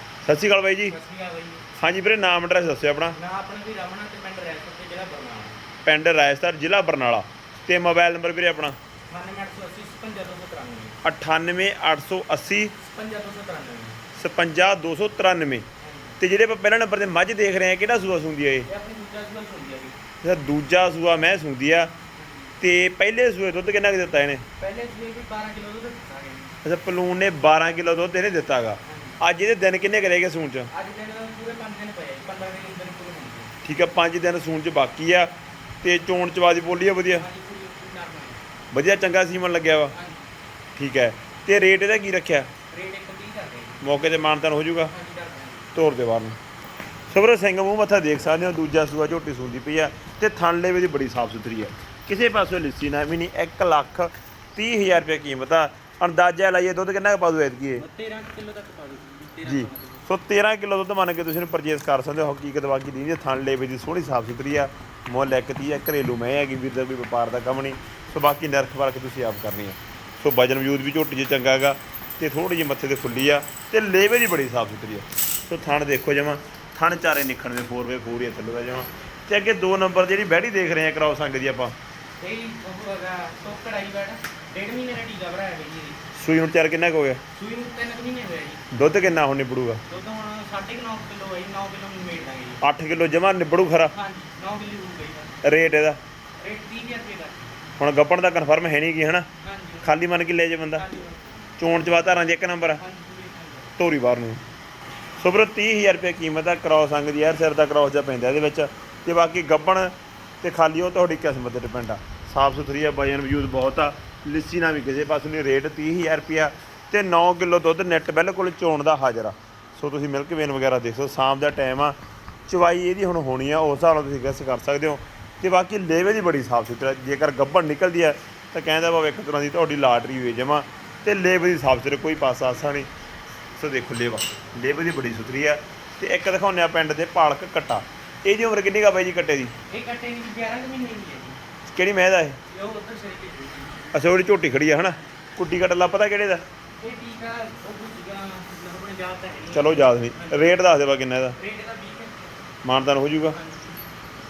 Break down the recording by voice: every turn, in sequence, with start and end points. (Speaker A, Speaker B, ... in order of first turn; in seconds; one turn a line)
Speaker A: 0.2-1.0
Speaker B: 0.9-1.7
Speaker A: 1.8-3.2
Speaker B: 3.1-5.6
Speaker A: 5.8-8.8
Speaker B: 9.1-11.0
Speaker A: 11.0-12.8
Speaker B: 12.8-14.0
Speaker A: 14.1-15.7
Speaker B: 15.8-16.2
Speaker A: 16.2-18.7
Speaker B: 18.7-20.0
Speaker A: 20.2-21.9
Speaker B: 22.2-22.6
Speaker A: 22.6-24.4
Speaker B: 24.6-26.6
Speaker A: 26.6-30.7
Speaker B: 28.9-29.2
Speaker B: 30.7-33.5
Speaker A: 33.6-37.2
Speaker B: 37.1-38.4
Speaker A: 38.7-39.9
Speaker B: 39.9-40.3
Speaker A: 40.8-42.5
Speaker B: 42.7-43.8
Speaker A: 43.8-44.9
Speaker B: 44.9-45.7
Speaker A: 45.7-46.4
Speaker A: 47.1-57.9
Speaker B: 57.8-60.1
Speaker A: 59.4-81.8
Speaker B: 82.2-86.0
Speaker A: 86.2-87.2
Speaker B: 87.3-88.7
Speaker A: 88.7-89.8
Speaker B: 89.9-92.6
Speaker A: 92.6-93.9
Speaker B: 93.9-95.4
Speaker A: 95.4-96.0
Speaker B: 96.4-97.6
Speaker A: 97.8-99.3
Speaker B: 99.4-99.9
Speaker A: 99.8-100.8
Speaker B: 100.7-101.5
Speaker A: 101.6-102.8
Speaker B: 102.8-103.7
Speaker A: 103.8-104.4
Speaker A: 105.2-122.0
Speaker A: 122.5-132.9
Speaker A: 133.6-139.5
Speaker B: 139.7-141.4
Speaker A: 141.7-142.4
Speaker B: 142.5-143.9
Speaker A: 143.9-146.4
Speaker B: 146.8-150.6
Speaker A: 149.5-151.4
Speaker B: 151.4-152.3
Speaker A: 152.6-153.4
Speaker B: 153.3-153.8